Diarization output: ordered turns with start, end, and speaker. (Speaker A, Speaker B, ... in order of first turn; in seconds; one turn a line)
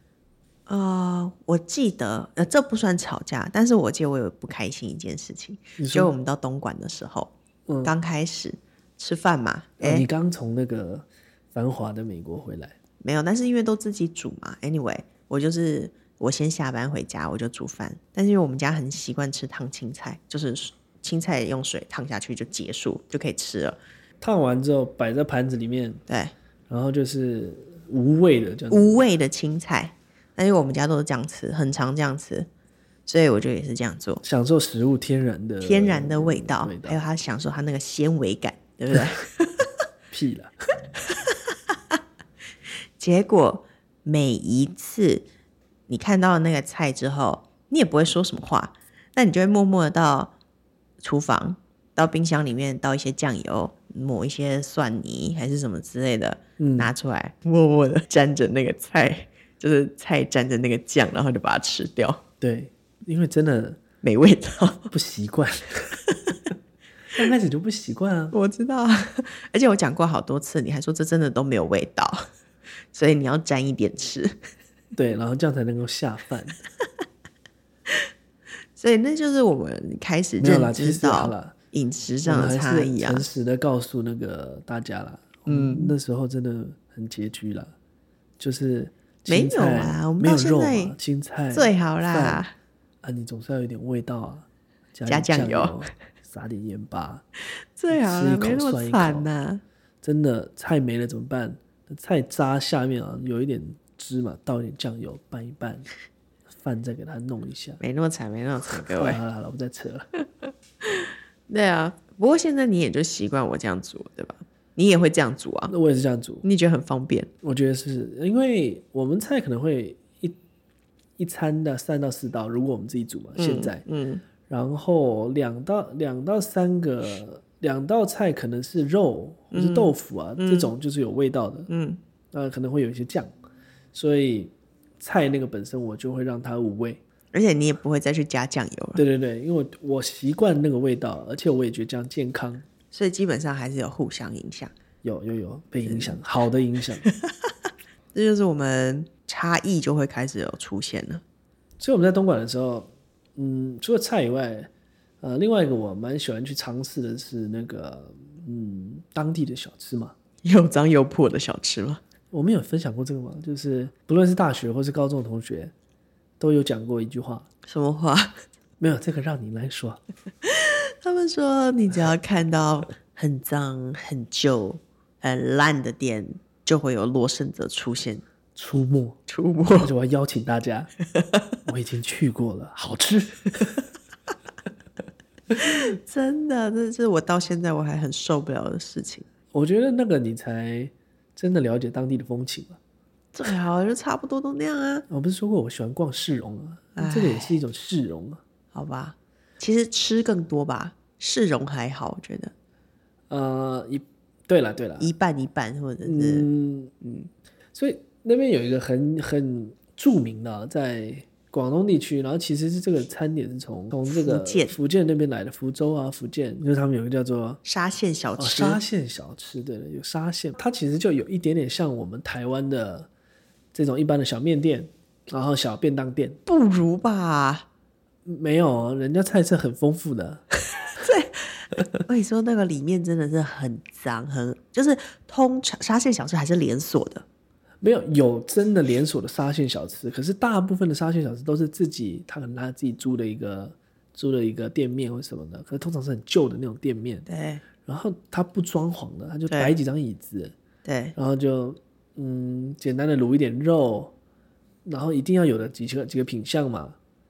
Speaker A: 0.7-10.1
Speaker B: 5.8-6.1
Speaker B: 7.7-7.9
Speaker B: 9.8-12.7
Speaker A: 13.0-23.8
Speaker B: 24.2-26.0
Speaker A: 26.1-26.3
Speaker B: 26.7-29.0
Speaker A: 28.7-32.5
Speaker A: 33.1-34.2
Speaker B: 34.2-37.0
Speaker A: 35.6-39.7
Speaker B: 40.1-40.5
Speaker A: 43.0-45.3
Speaker A: 45.9-50.3
Speaker A: 51.0-62.2
Speaker B: 56.6-56.9
Speaker B: 62.4-63.8
Speaker A: 64.0-64.9
Speaker B: 64.9-66.0
Speaker B: 67.1-68.3
Speaker A: 68.3-72.2
Speaker A: 72.9-74.3
Speaker B: 74.9-76.6
Speaker A: 78.8-83.2
Speaker B: 80.4-81.5
Speaker B: 82.2-87.7
Speaker A: 85.5-85.9
Speaker B: 88.4-92.4
Speaker A: 89.3-91.0
Speaker A: 91.5-92.5
Speaker B: 93.0-97.2
Speaker A: 95.0-95.8
Speaker A: 97.8-99.6
Speaker B: 97.9-99.3
Speaker B: 100.0-105.9
Speaker B: 106.6-107.8
Speaker A: 107.8-109.2
Speaker B: 108.9-110.1
Speaker A: 111.5-115.7
Speaker B: 115.7-116.4
Speaker A: 116.4-117.3
Speaker B: 117.4-120.4
Speaker B: 121.2-123.8
Speaker A: 123.3-124.2
Speaker B: 124.5-131.7
Speaker A: 129.5-130.7
Speaker A: 131.7-132.0
Speaker B: 132.3-133.3
Speaker B: 133.9-137.0
Speaker A: 137.3-139.0
Speaker B: 138.9-142.6
Speaker A: 142.9-144.7
Speaker B: 145.0-147.0
Speaker A: 145.8-146.2
Speaker A: 147.1-147.5
Speaker A: 148.1-151.2
Speaker B: 151.8-154.7
Speaker B: 155.2-160.1
Speaker A: 160.4-162.0
Speaker B: 162.3-165.7
Speaker B: 166.4-167.4
Speaker A: 167.7-168.3
Speaker B: 168.8-170.0
Speaker A: 170.4-178.2
Speaker B: 178.6-179.2
Speaker A: 179.3-179.9
Speaker B: 179.8-180.9
Speaker A: 181.1-181.4
Speaker B: 181.7-183.8
Speaker A: 185.6-189.2
Speaker B: 189.5-192.8
Speaker A: 193.3-195.1
Speaker B: 195.1-198.4
Speaker A: 196.9-197.6
Speaker A: 198.7-202.5
Speaker B: 203.3-205.1
Speaker A: 205.0-206.5
Speaker B: 206.0-206.9
Speaker A: 207.0-207.3
Speaker B: 207.7-217.6
Speaker A: 214.1-214.8
Speaker A: 217.6-218.8
Speaker B: 218.4-223.1
Speaker B: 223.7-226.4
Speaker A: 226.5-227.7
Speaker B: 228.2-230.4
Speaker A: 230.9-237.2
Speaker B: 237.8-247.2
Speaker A: 247.3-247.6
Speaker B: 247.8-250.5
Speaker A: 249.5-249.7
Speaker A: 250.8-251.1
Speaker B: 251.1-254.1
Speaker B: 254.8-256.9